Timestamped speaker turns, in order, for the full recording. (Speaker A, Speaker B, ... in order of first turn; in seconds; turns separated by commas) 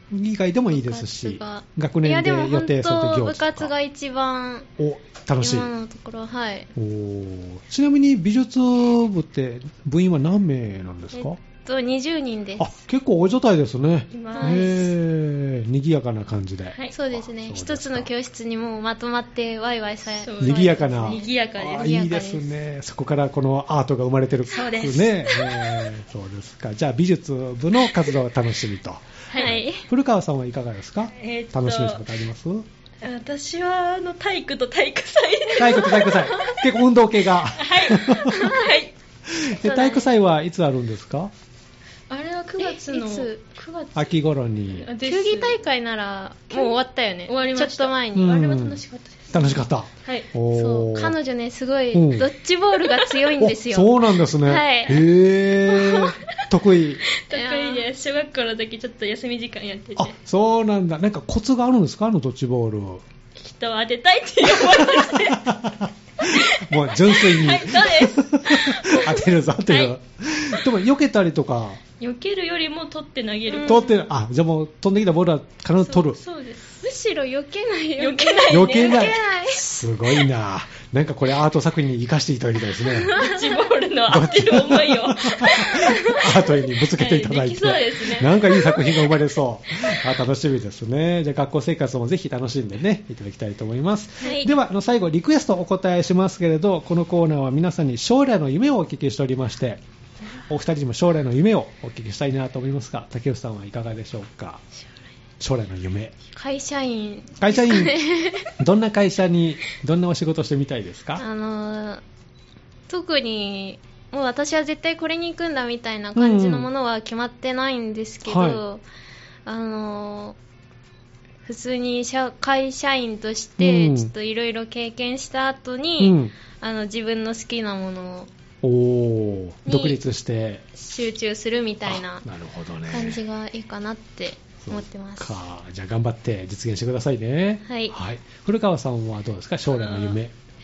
Speaker A: 0.1-3.7, Speaker B: 0.7-4.7, Speaker A: 4.8-5.7, Speaker B: 5.4-6.7, Speaker A: 6.8-11.4, Speaker B: 11.1-12.7, Speaker A: 12.6-18.1, Speaker C: 14.1-14.9, Speaker B: 14.3-14.9, Speaker B: 16.9-22.4, Speaker C: 20.2-22.3, Speaker A: 20.4-32.6, Speaker C: 24.5-25.9, Speaker B: 29.3-29.8, Speaker C: 31.1-32.0, Speaker C: 33.0-36.7, Speaker A: 35.5-38.5, Speaker C: 37.5-38.9, Speaker B: 38.3-38.6, Speaker A: 39.3-41.3, Speaker B: 39.6-40.0, Speaker C: 42.1-44.2, Speaker B: 42.6-43.4, Speaker A: 43.9-44.9, Speaker C: 44.7-45.6, Speaker B: 45.0-48.4, Speaker C: 46.5-50.3, Speaker A: 48.1-51.1, Speaker B: 50.5-55.1, Speaker A: 51.9-52.3, Speaker A: 53.4-57.0, Speaker C: 55.7-56.4, Speaker C: 57.1-60.1, Speaker B: 57.3-57.8, Speaker A: 60.0-63.0, Speaker C: 63.4-69.9, Speaker A: 64.5-71.8, Speaker C: 72.0-73.9, Speaker B: 73.5-74.0, Speaker A: 73.6-76.2, Speaker C: 75.8-76.9, Speaker B: 76.8-79.6, Speaker C: 78.0-79.2, Speaker A: 78.5-83.1, Speaker C: 83.1-89.0, Speaker B: 83.1-83.5, Speaker A: 84.1-99.8, Speaker B: 85.9-86.1, Speaker B: 94.2-94.5, Speaker A: 100.5-104.6, Speaker A: 105.4-106.1, Speaker B: 106.3-108.5, Speaker A: 107.4-111.2, Speaker B: 111.2-112.0, Speaker B: 112.9-118.8, Speaker A: 116.1-116.7, Speaker A: 118.2-118.6, Speaker B: 119.5-120.3, Speaker B: 121.4-128.3, Speaker A: 123.6-124.1, Speaker A: 126.0-126.3, Speaker A: 128.6-130.6, Speaker B: 129.7-130.0, Speaker B: 130.7-132.2, Speaker A: 131.8-133.2, Speaker B: 132.9-135.4, Speaker A: 134.6-140.3, Speaker B: 137.7-137.9, Speaker C: 139.7-140.2